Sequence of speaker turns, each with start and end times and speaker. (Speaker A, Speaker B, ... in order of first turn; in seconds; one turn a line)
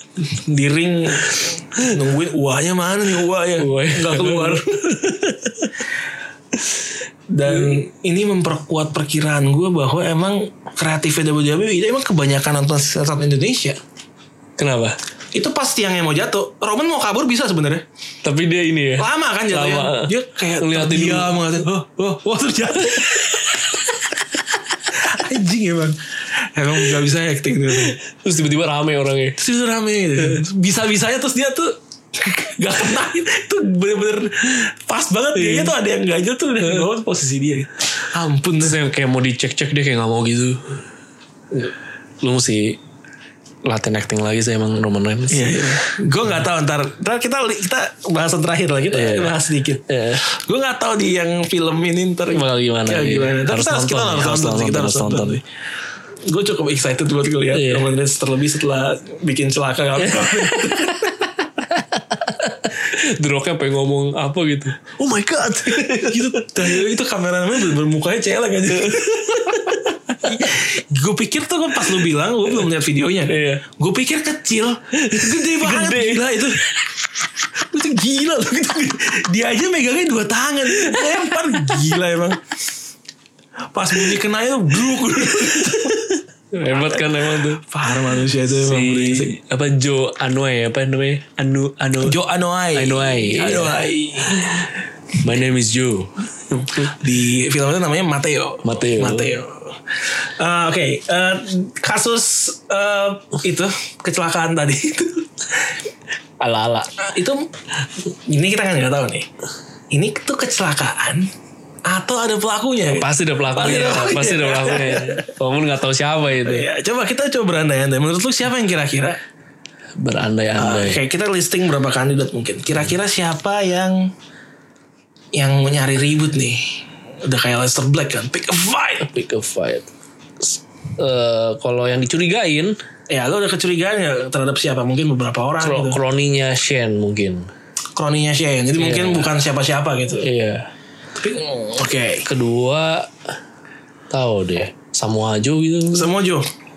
Speaker A: 0.2-4.8
Speaker B: 3.6-5.7
Speaker A: 7.3-13.8
Speaker B: 7.5-7.8
Speaker B: 14.6-15.0
Speaker A: 15.3-17.8
Speaker B: 18.2-21.4
Speaker A: 19.0-23.5
Speaker B: 22.9-23.6
Speaker A: 24.9-26.0
Speaker A: 26.5-28.0
Speaker B: 27.7-29.4
Speaker A: 29.4-38.8
Speaker B: 35.3-35.7
Speaker B: 38.6-40.8
Speaker B: 41.5-42.8
Speaker B: 43.6-45.6
Speaker A: 45.3-55.4
Speaker B: 48.9-50.2
Speaker B: 52.3-55.4
Speaker A: 56.3-61.2
Speaker B: 57.5-57.9
Speaker B: 60.0-66.9
Speaker A: 65.6-76.7
Speaker B: 68.7-70.6
Speaker B: 73.3-73.6
Speaker B: 74.9-76.7
Speaker A: 77.7-82.4
Speaker B: 80.7-81.8
Speaker A: 83.7-86.1
Speaker B: 85.3-87.6
Speaker A: 86.7-89.4
Speaker B: 88.5-92.2
Speaker A: 92.0-94.7
Speaker B: 92.7-94.7
Speaker B: 95.2-96.9
Speaker A: 96.8-105.7
Speaker B: 98.6-99.3
Speaker B: 106.4-106.9
Speaker A: 107.0-107.5
Speaker A: 108.2-109.3
Speaker A: 109.9-111.3
Speaker A: 111.9-115.3
Speaker B: 112.9-116.7
Speaker A: 116.4-119.2
Speaker B: 120.0-121.0
Speaker A: 120.6-124.1
Speaker A: 125.3-129.1
Speaker B: 129.0-132.8
Speaker A: 133.1-136.0
Speaker B: 135.6-137.5
Speaker A: 138.0-140.3
Speaker B: 138.8-139.3
Speaker B: 140.2-140.7
Speaker A: 141.2-142.3
Speaker B: 142.2-143.1
Speaker B: 144.1-146.1
Speaker A: 145.9-146.5